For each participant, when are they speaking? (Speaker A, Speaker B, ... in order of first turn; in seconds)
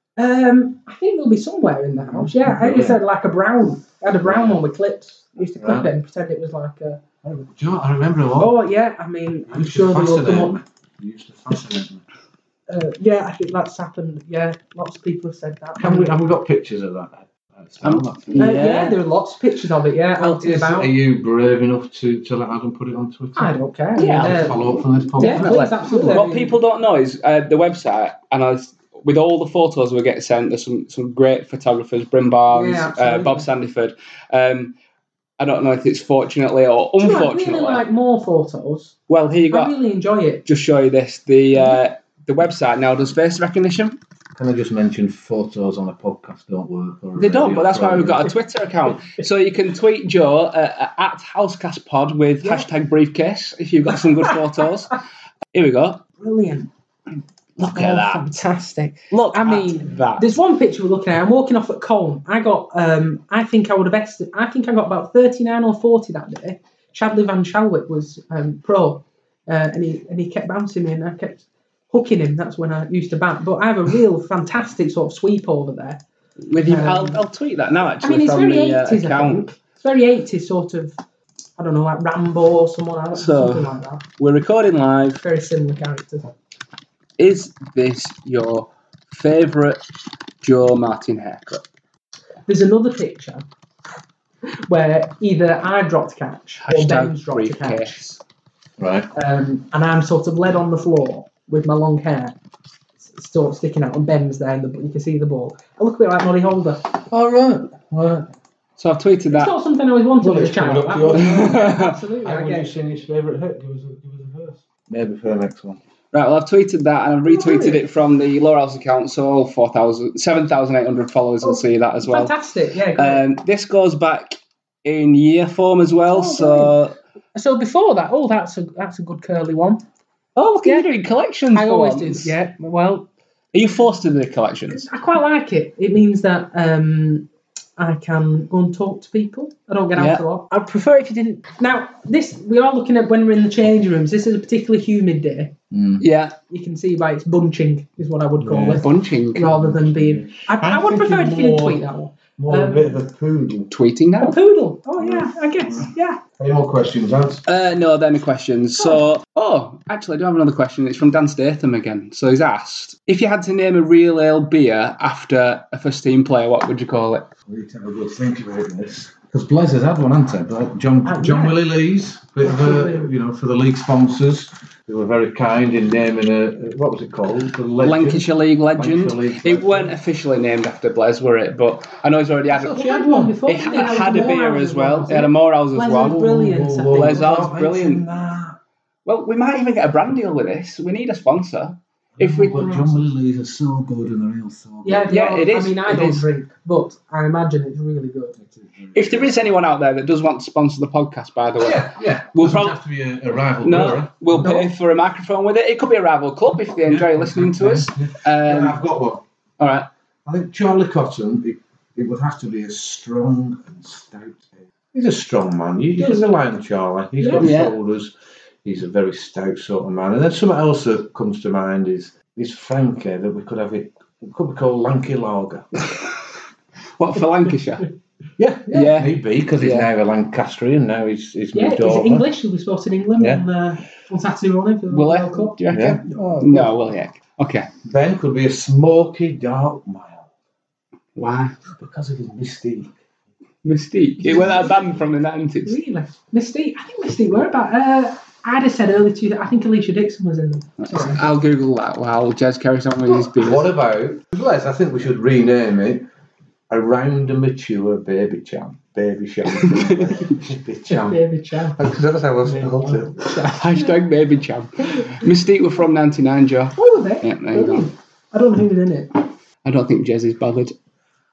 Speaker A: 0.2-7.0, 8.4-10.5, 12.7-16.1, 18.4-20.9, 23.4-24.6, 25.1-26.5, 32.5-33.5, 37.0-39.0, 39.5-40.4, 56.2-56.7, 57.7-76.0, 76.6-77.2, 78.0-81.0, 81.6-84.0, 85.2-86.3, 92.5-93.4, 94.5-98.0, 99.1-102.3, 103.0-106.9, 109.3-112.7, 117.3-117.8, 121.4-123.2, 126.1-126.8, 127.3-129.8, 130.6-130.9, 131.5-133.1, 134.7-145.6, 146.5-153.0, 154.2-156.2, 171.0-171.6, 172.4-173.1, 182.5-187.4, 192.5-192.9, 194.8-198.4, 217.2-217.5, 231.5-235.7, 245.7-251.2, 260.9-261.8, 262.6-264.0, 266.7-269.1
Speaker B: 2.1-3.0, 4.2-4.6, 5.6-5.9, 7.2-8.5, 9.5-12.0, 15.8-18.6, 20.1-23.5, 24.2-26.2, 44.4-48.3, 98.8-99.1, 107.0-108.3, 110.2-111.6, 112.2-115.8, 145.7-146.0, 148.4-148.8, 149.5-151.8, 152.4-153.7, 155.0-157.4, 167.5-179.9, 182.6-183.4, 186.0-188.6, 192.2-195.1, 198.4-199.5, 201.6-204.7, 206.8-209.2, 210.2-225.7, 228.4-232.3, 233.2-233.4, 235.7-236.7, 237.8-240.3, 241.8-242.9, 244.3-244.6, 253.1-256.0, 256.7-261.2, 261.7-263.4
Speaker C: 17.8-19.0, 23.9-24.6, 25.1-34.7, 35.4-37.8, 39.1-39.7, 40.4-44.0, 47.1-54.9, 55.5-56.0, 57.6-58.2, 59.1-60.2, 76.4-79.5, 83.1-85.2, 87.2-89.8, 90.4-91.6, 96.6-98.2, 108.8-109.5, 111.1-112.0, 116.1-122.3, 123.0-127.0, 130.3-132.3, 133.5-134.9, 139.9-140.2, 146.0-146.3, 148.7-149.5, 153.7-154.3, 157.4-167.3, 177.8-186.2, 186.9-188.0, 189.0-192.8, 195.1-196.2, 198.9-202.8, 203.6-208.8, 209.6-209.9, 217.4-217.7, 227.0-227.9, 228.7-229.9, 234.9-237.7, 241.2-241.6, 243.6-245.8, 250.8-253.7, 259.6-260.3, 263.5-267.9, 269.6-270.8